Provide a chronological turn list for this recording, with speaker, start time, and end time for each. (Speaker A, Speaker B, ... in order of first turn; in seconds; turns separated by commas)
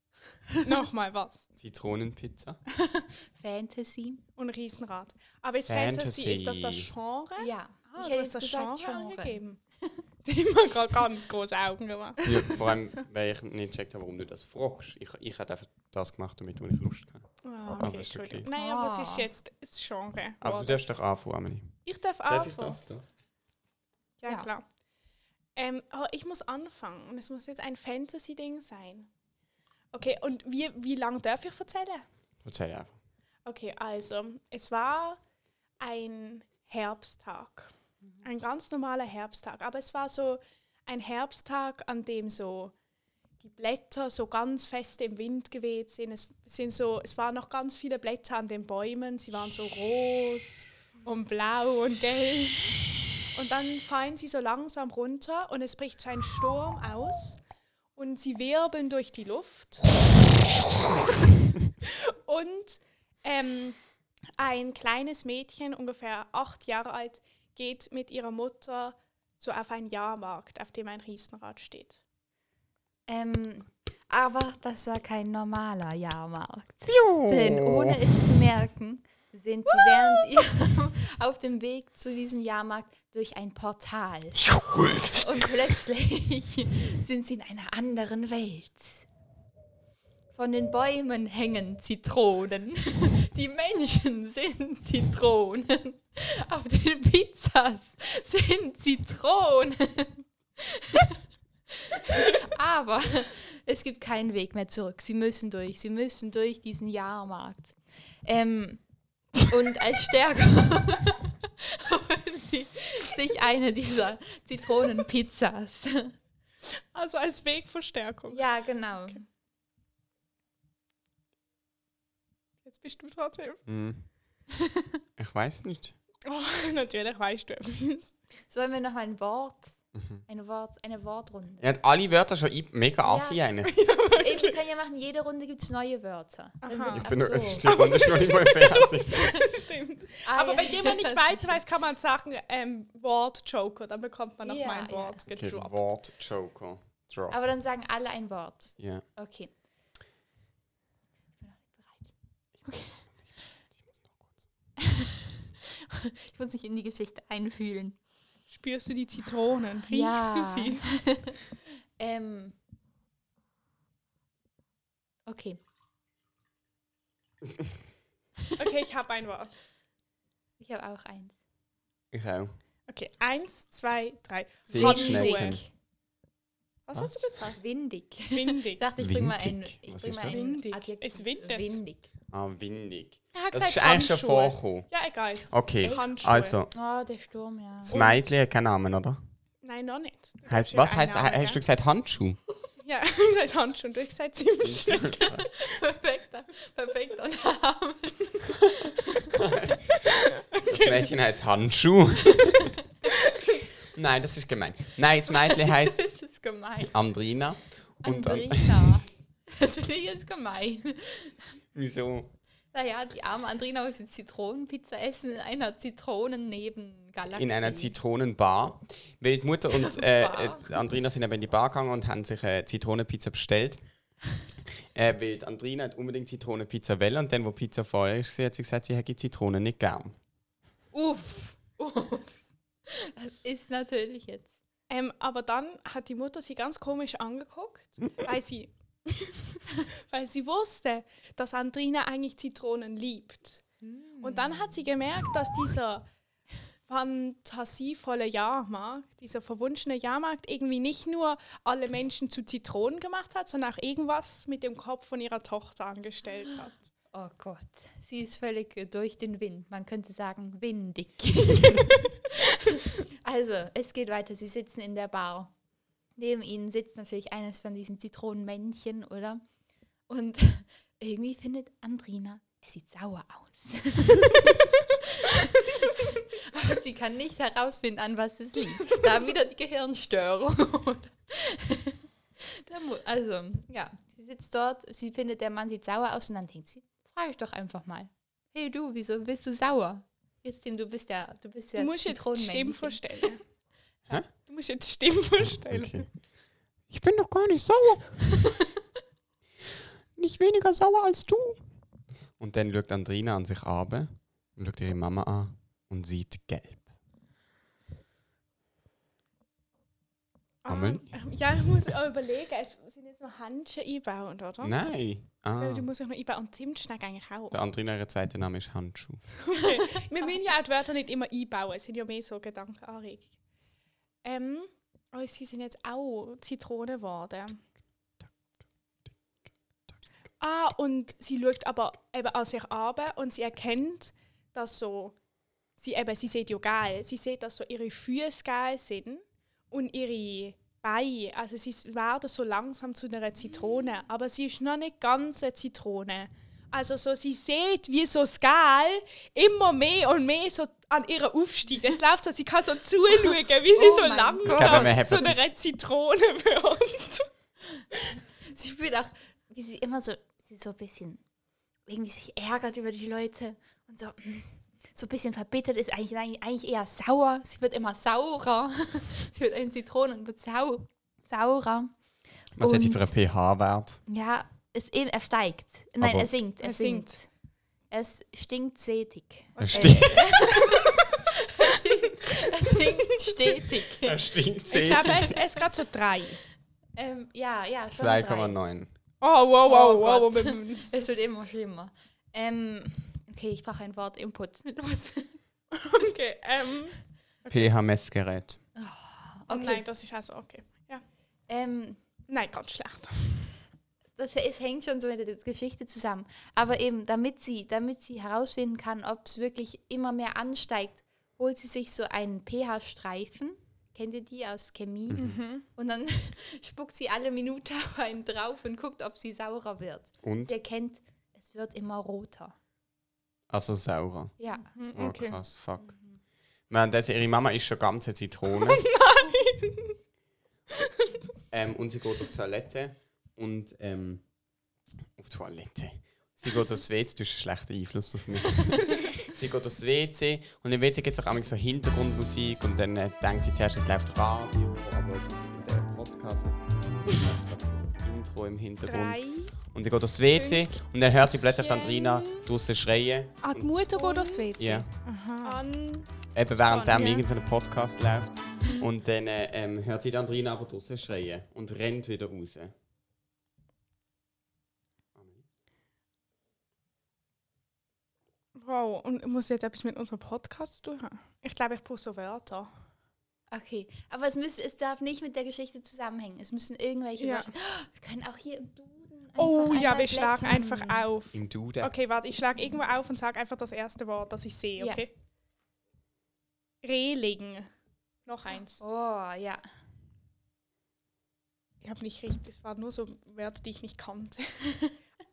Speaker A: 0.6-1.4, Speaker B: 1.6-2.6, Speaker C: 2.8-4.2, Speaker A: 4.4-9.6, Speaker B: 5.7-6.9, Speaker C: 7.4-9.9, Speaker A: 10.2-12.6, Speaker B: 12.2-18.5, Speaker A: 17.4-20.8, Speaker C: 18.5-19.3, Speaker B: 20.4-21.8, Speaker A: 21.8-22.8, Speaker B: 22.3-23.1, Speaker A: 24.2-24.6, Speaker A: 25.6-29.1, Speaker A: 29.9-32.0, Speaker B: 32.4-32.9, Speaker A: 33.5-35.2, Speaker A: 35.8-37.7, Speaker A: 38.2-42.7, Speaker A: 43.4-57.4, Speaker A: 58.0-60.0, Speaker A: 61.8-63.8, Speaker A: 64.4-72.0, Speaker C: 73.1-89.1, Speaker B: 76.9-78.0, Speaker B: 84.4-85.2, Speaker C: 90.3-101.2, Speaker C: 101.9-108.8, Speaker C: 109.4-116.1, Speaker A: 116.9-118.5, Speaker C: 118.3-119.2, Speaker A: 122.6-123.6, Speaker B: 123.7-124.1, Speaker B: 125.2-125.9, Speaker A: 126.2-128.1, Speaker C: 128.5-131.7, Speaker B: 129.9-130.2, Speaker B: 131.6-133.8, Speaker C: 133.0-133.4, Speaker A: 133.6-134.6, Speaker C: 134.0-137.9, Speaker A: 136.6-137.1, Speaker B: 136.9-139.4, Speaker A: 137.6-145.9, Speaker C: 140.2-141.6, Speaker C: 144.4-145.2, Speaker B: 145.3-147.4, Speaker C: 147.3-149.5, Speaker B: 148.8-149.0, Speaker C: 151.4-152.1, Speaker B: 154.0-154.4, Speaker C: 154.8-157.9, Speaker A: 158.5-161.0, Speaker C: 159.9-161.3, Speaker C: 162.0-162.6, Speaker C: 165.2-165.6, Speaker A: 168.6-169.5, Speaker C: 170.6-171.3, Speaker B: 172.1-172.6, Speaker A: 172.9-175.6, Speaker C: 174.7-175.7, Speaker B: 174.7-175.6, Speaker A: 176.9-177.6, Speaker B: 176.9-177.3, Speaker C: 177.5-182.1, Speaker A: 178.3-178.8, Speaker B: 179.0-180.5, Speaker A: 180.2-181.8, Speaker B: 182.3-184.9, Speaker A: 183.3-186.6, Speaker B: 185.5-186.7, Speaker C: 185.8-188.0, Speaker B: 187.8-189.2, Speaker A: 187.9-188.2, Speaker A: 189.6-191.6, Speaker B: 190.4-192.4, Speaker A: 192.8-195.4, Speaker B: 194.6-195.5, Speaker C: 195.4-199.3, Speaker B: 199.3-199.8, Speaker A: 200.5-201.1, Speaker B: 200.7-202.7, Speaker A: 203.1-203.7, Speaker B: 203.9-206.1, Speaker C: 205.4-207.0, Speaker B: 206.9-208.9, Speaker C: 208.0-211.4, Speaker B: 211.7-212.3, Speaker C: 212.7-217.9, Speaker B: 217.2-223.8, Speaker C: 219.7-220.8, Speaker B: 224.9-230.2, Speaker C: 230.9-234.5, Speaker A: 234.9-243.6, Speaker C: 243.8-244.9, Speaker A: 244.2-246.1, Speaker A: 246.9-256.9, Speaker C: 257.1-265.5, Speaker C: 266.2-269.4, Speaker C: 270.1-274.7, Speaker C: 275.3-293.0, Speaker A: 291.8-293.4, Speaker A: 294.4-296.1, Speaker B: 295.7-296.1, Speaker B: 296.9-298.5, Speaker B: 300.2-301.6, Speaker B: 302.4-306.9, Speaker A: 310.6-314.8, Speaker B: 310.7-311.1, Speaker B: 314.6-315.9, Speaker A: 315.6-317.6, Speaker B: 317.5-319.3, Speaker A: 319.4-323.3, Speaker A: 324.2-327.6, Speaker A: 330.4-335.2, Speaker A: 335.8-357.3, Speaker C: 343.5-344.1, Speaker C: 353.7-355.3, Speaker B: 354.4-355.4, Speaker C: 358.4-361.2, Speaker C: 361.9-371.9, Speaker B: 372.6-374.0, Speaker C: 372.6-373.1, Speaker C: 374.1-377.3, Speaker B: 376.0-376.3, Speaker A: 376.6-377.2, Speaker C: 377.9-381.0, Speaker A: 379.6-380.7, Speaker B: 379.6-380.7, Speaker C: 381.6-384.3, Speaker B: 384.0-385.5, Speaker A: 384.7-386.4, Speaker C: 386.9-388.6, Speaker B: 387.9-388.9, Speaker A: 389.2-391.1, Speaker C: 389.6-395.4, Speaker A: 395.7-397.7, Speaker B: 397.5-398.6, Speaker C: 398.8-399.9, Speaker A: 399.5-401.0, Speaker C: 401.5-402.0, Speaker A: 402.3-403.5, Speaker C: 404.2-422.6, Speaker B: 415.1-415.4, Speaker A: 415.2-415.7, Speaker B: 420.2-420.6, Speaker B: 423.5-424.4, Speaker C: 424.4-424.7, Speaker A: 424.5-425.4, Speaker B: 424.9-425.9, Speaker C: 425.8-426.2, Speaker B: 426.7-428.8, Speaker A: 428.5-430.0, Speaker B: 431.5-434.2, Speaker B: 435.2-453.8, Speaker A: 448.9-449.6, Speaker A: 450.3-450.9, Speaker A: 451.4-452.5, Speaker A: 453.4-457.3, Speaker B: 454.6-454.9, Speaker B: 456.3-462.7, Speaker B: 465.1-465.4, Speaker A: 468.6-472.7, Speaker C: 473.5-481.1, Speaker A: 477.2-477.5, Speaker A: 479.4-485.1, Speaker B: 481.3-481.9, Speaker C: 484.8-485.0, Speaker A: 486.8-487.7, Speaker A: 488.3-488.8, Speaker C: 488.8-489.6, Speaker A: 491.8-494.7